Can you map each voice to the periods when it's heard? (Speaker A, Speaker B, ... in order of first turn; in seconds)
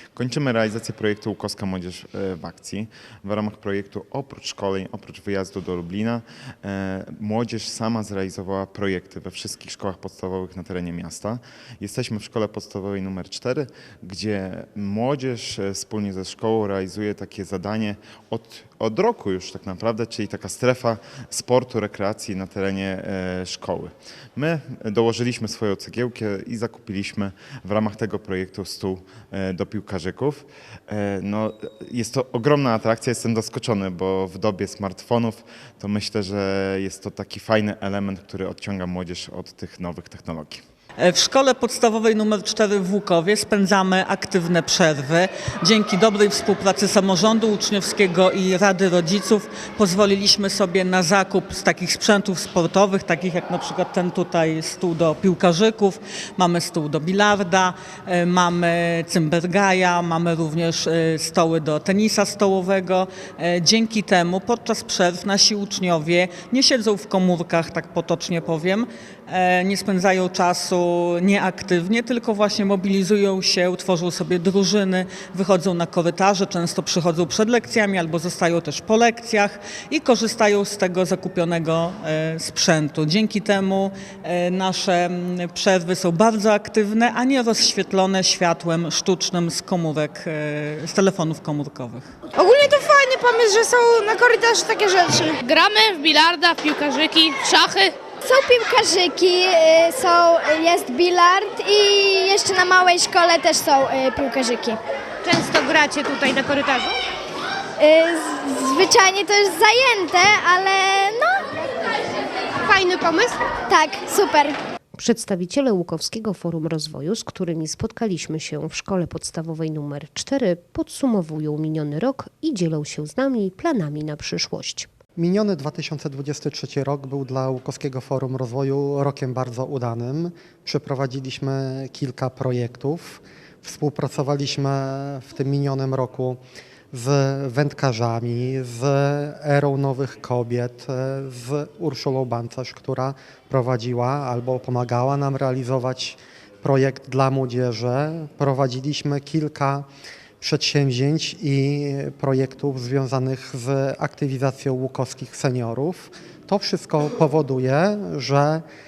Speaker A: 0.1-40.6
Speaker B: 41.0-92.1
Speaker C: 92.3-95.4, 105.2-107.0, 112.6-113.4
Speaker D: 95.5-97.9
Speaker E: 98.2-104.8, 107.8-111.5, 113.7-114.6
Speaker F: 115.0-124.9
Speaker G: 125.2-136.4, 136.9-149.9, 150.4-158.6